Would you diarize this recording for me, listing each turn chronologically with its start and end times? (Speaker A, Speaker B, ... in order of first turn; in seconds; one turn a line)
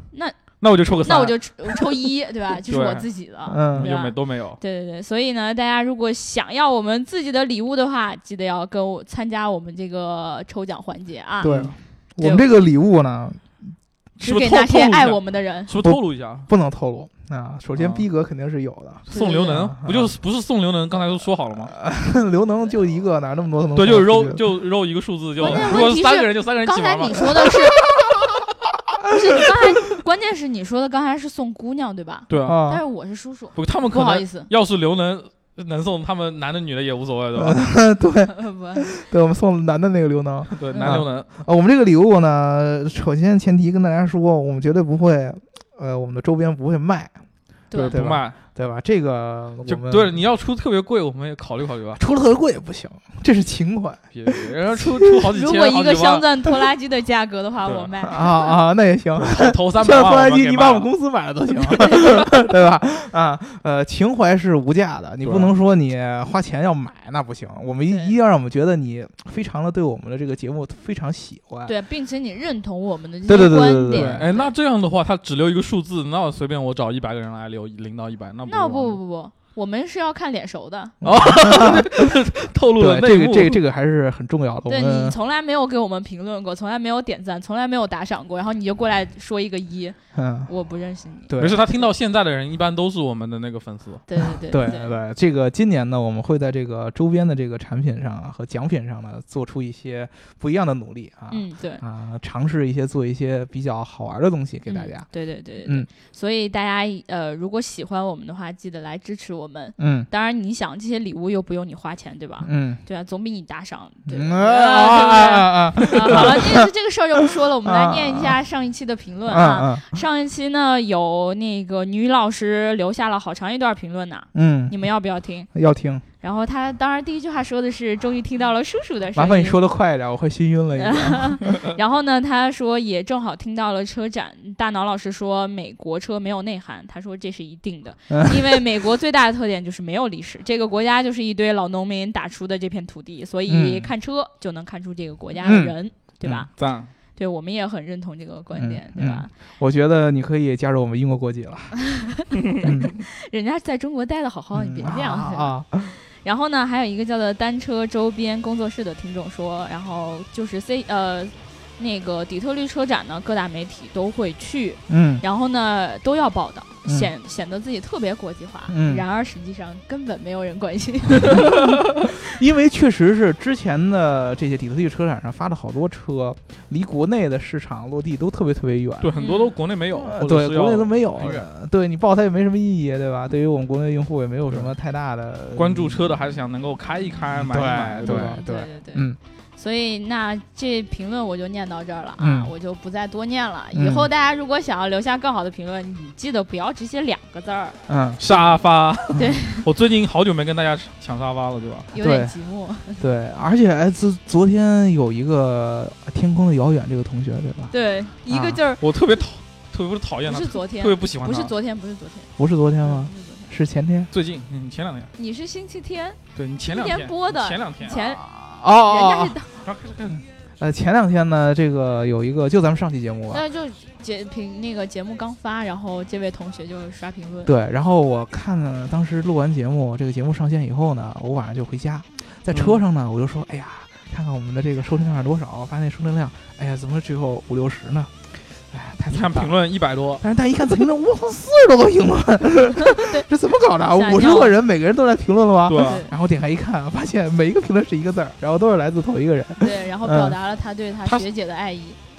Speaker A: 0.1-0.4
Speaker B: 0.6-1.9
Speaker A: 1.0-11.6
Speaker B: 2.7-3.1
Speaker C: 3.5-3.9
Speaker B: 3.7-4.6
Speaker B: 11.4-11.7
Speaker C: 11.4-13.5
Speaker A: 12.2-12.5
Speaker A: 14.2-15.7
Speaker B: 14.2-16.5
Speaker C: 15.8-20.1
Speaker B: 17.7-18.1
Speaker B: 19.1-21.7
Speaker A: 19.1-19.7
Speaker C: 21.7-24.4
Speaker B: 23.7-27.5
Speaker A: 25.4-27.8
Speaker C: 25.4-25.8
Speaker C: 27.4-28.1
Speaker A: 29.1-34.5
Speaker B: 32.3-32.6
Speaker C: 32.4-32.8
Speaker B: 33.5-37.6
Speaker C: 37.3-47.1
Speaker A: 38.3-38.9
Speaker B: 40.6-41.4
Speaker A: 40.7-41.0
Speaker A: 47.7-48.0
Speaker B: 47.7-48.3
Speaker C: 47.9-50.2
Speaker B: 49.6-52.0
Speaker C: 52.0-55.2
Speaker B: 54.1-56.2
Speaker A: 55.3-58.5
Speaker B: 57.6-57.9
Speaker C: 58.0-71.7
Speaker B: 59.2-60.9
Speaker B: 65.2-65.5
Speaker A: 67.9-68.1
Speaker A: 71.7-74.5
Speaker C: 73.3-74.2
Speaker B: 73.9-79.0
Speaker A: 78.5-81.0
Speaker C: 81.0-82.2
Speaker B: 81.0-83.6
Speaker C: 82.8-85.2
Speaker A: 84.7-90.0
Speaker C: 90.1-90.5
Speaker A: 90.5-91.3
Speaker C: 91.3-91.7
Speaker B: 91.4-94.0
Speaker A: 94.1-95.0
Speaker C: 94.2-105.1
Speaker A: 101.3-101.8
Speaker A: 104.7-125.5
Speaker C: 105.6-105.9
Speaker C: 109.8-110.1
Speaker C: 112.4-112.8
Speaker C: 114.1-116.7
Speaker C: 117.5-118.4
Speaker C: 119.3-119.9
Speaker C: 124.3-124.8
Speaker C: 125.5-126.0
Speaker A: 126.2-129.6
Speaker C: 129.2-131.7
Speaker A: 130.8-146.5
Speaker C: 138.1-138.6
Speaker C: 143.5-143.9
Speaker C: 145.4-146.5
Speaker B: 146.6-146.9
Speaker A: 147.1-149.3
Speaker C: 148.5-151.7
Speaker A: 151.8-155.5
Speaker C: 152.6-153.0
Speaker C: 154.5-156.0
Speaker A: 156.2-171.8
Speaker C: 164.9-165.2
Speaker C: 166.8-167.1
Speaker C: 168.7-169.0
Speaker C: 171.3-179.2
Speaker B: 179.0-181.4
Speaker A: 179.2-179.6
Speaker C: 179.9-186.2
Speaker B: 185.5-188.4
Speaker C: 187.3-189.2
Speaker A: 188.0-197.8
Speaker C: 192.2-192.5
Speaker C: 193.7-194.1
Speaker C: 197.9-198.2
Speaker B: 198.2-201.9
Speaker A: 199.1-199.6
Speaker A: 201.9-203.0
Speaker C: 202.0-202.3
Speaker C: 203.0-207.7
Speaker A: 207.7-208.8
Speaker C: 208.3-208.6
Speaker B: 208.8-211.5
Speaker A: 210.2-212.3
Speaker C: 212.4-214.1
Speaker A: 212.8-213.5
Speaker B: 214.1-215.1
Speaker A: 215.2-218.3
Speaker B: 216.3-218.0
Speaker C: 218.0-219.3
Speaker A: 218.8-219.5
Speaker B: 219.6-220.2
Speaker C: 220.1-223.4
Speaker A: 223.3-227.5
Speaker C: 227.4-239.6
Speaker B: 232.5-232.8
Speaker B: 239.1-240.2
Speaker C: 240.2-250.3
Speaker A: 242.9-243.2
Speaker A: 243.9-244.5
Speaker B: 245.7-246.0
Speaker A: 245.8-246.1
Speaker A: 249.6-252.0